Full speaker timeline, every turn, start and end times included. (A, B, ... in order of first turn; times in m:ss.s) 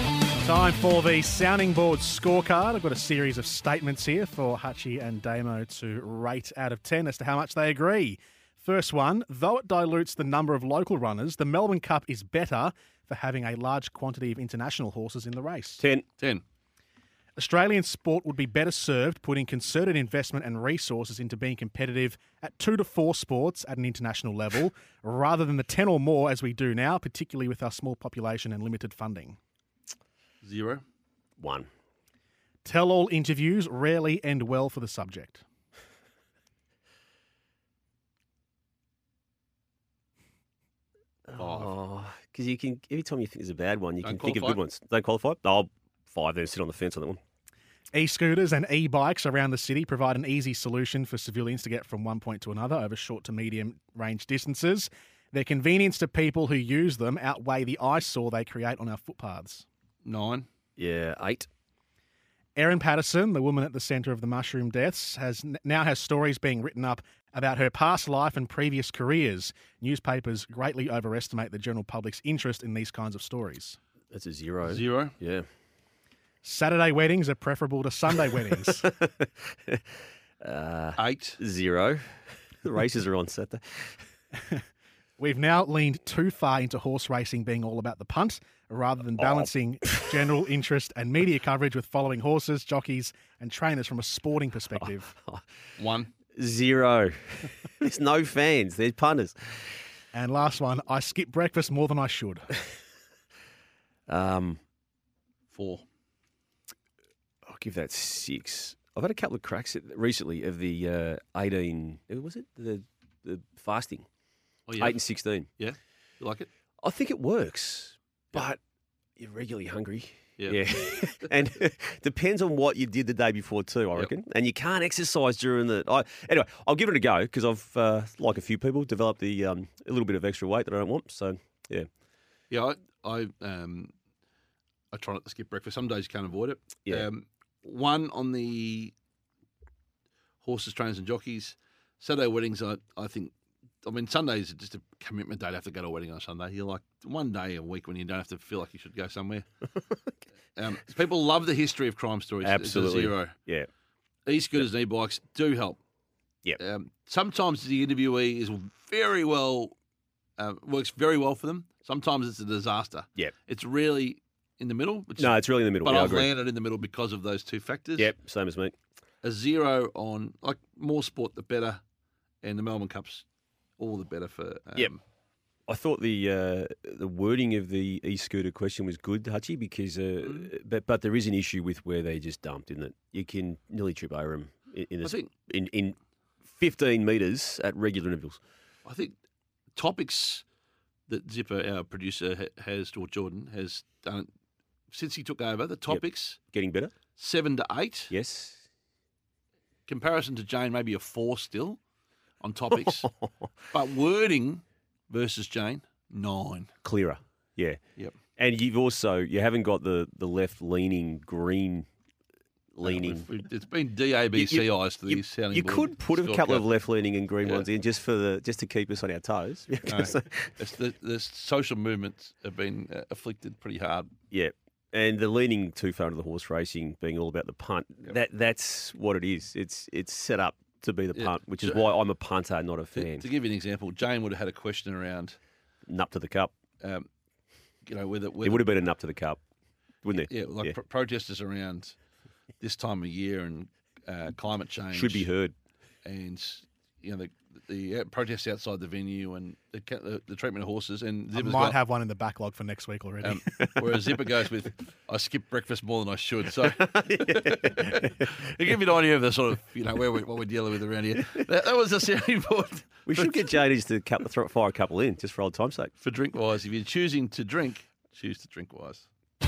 0:00.4-0:15.8 A
0:15.8-0:16.0 B
0:17.4-0:29.4 A
0:30.4-0:30.8 C
0:31.4-0:31.7 B
0:32.6-0:35.4 A
0:41.3-0:47.2 B
0:41.4-0:41.7 C
0:44.0-0:44.6 C
0:47.9-0:59.6 A
1:00.0-1:00.4 C
1:00.8-1:01.5 B
1:02.6-1:13.8 A
1:14.1-1:15.5 B
1:14.6-1:15.1 C
1:16.4-1:18.9 A
1:18.8-1:19.8 B
1:20.4-1:22.0 B
1:21.0-1:21.4 C
1:22.6-1:24.0 B
1:24.3-1:24.6 A
1:25.2-1:35.1 A
1:35.8-1:36.1 C
1:36.4-1:39.3 B
1:40.1-1:42.6 A
1:44.1-1:44.6 B
1:45.5-1:45.8 C
1:47.4-1:54.0 B
1:54.7-1:55.0 C
1:54.8-1:55.5 B
1:55.6-1:56.5 C
1:56.8-1:58.6 B
1:59.2-2:11.9 B
2:00.4-2:00.6 C
2:12.5-2:13.9 C
2:14.9-2:18.9 C
2:20.4-2:29.4 C
2:30.6-2:33.3 C
2:32.4-2:33.7 B
2:34.2-2:35.8 C
2:36.6-2:39.7 C
2:40.4-2:48.1 C
2:45.2-2:46.3 B
2:48.0-2:48.7 B
2:49.2-2:51.8 C
2:52.4-2:53.2 C
2:53.8-2:55.0 C
2:55.7-3:06.0 B
3:00.2-3:00.5 C
3:05.0-3:05.3 C
3:06.5-3:08.4 B
3:08.8-3:09.1 C
3:09.7-3:10.4 C
3:11.1-3:14.3 C
3:14.9-3:16.4 C
3:15.9-3:16.9 B
3:17.2-3:18.1 C
3:18.1-3:18.6 B
3:19.9-3:21.8 C
3:22.4-3:23.1 C
3:23.0-3:23.5 B
3:23.7-3:26.7 C
3:26.8-3:27.8 B
3:28.4-3:31.9 B
3:32.7-3:33.3 B
3:32.8-3:36.6 C
3:34.3-3:40.6 B
3:39.9-3:44.1 C
3:44.3-3:53.2 B
3:51.1-3:51.9 C
3:52.9-3:55.4 C
3:55.9-3:56.5 B
3:56.8-3:57.1 C
3:57.8-3:58.7 C
3:58.4-3:59.4 B
4:00.0-4:00.7 B
4:00.3-4:01.9 C
4:02.6-4:05.2 C
4:04.9-4:05.5 B
4:06.0-4:11.8 C
4:11.3-4:13.7 A
4:13.2-4:23.4 C
4:16.9-4:17.9 B
4:23.1-4:25.9 B
4:26.0-4:29.1 C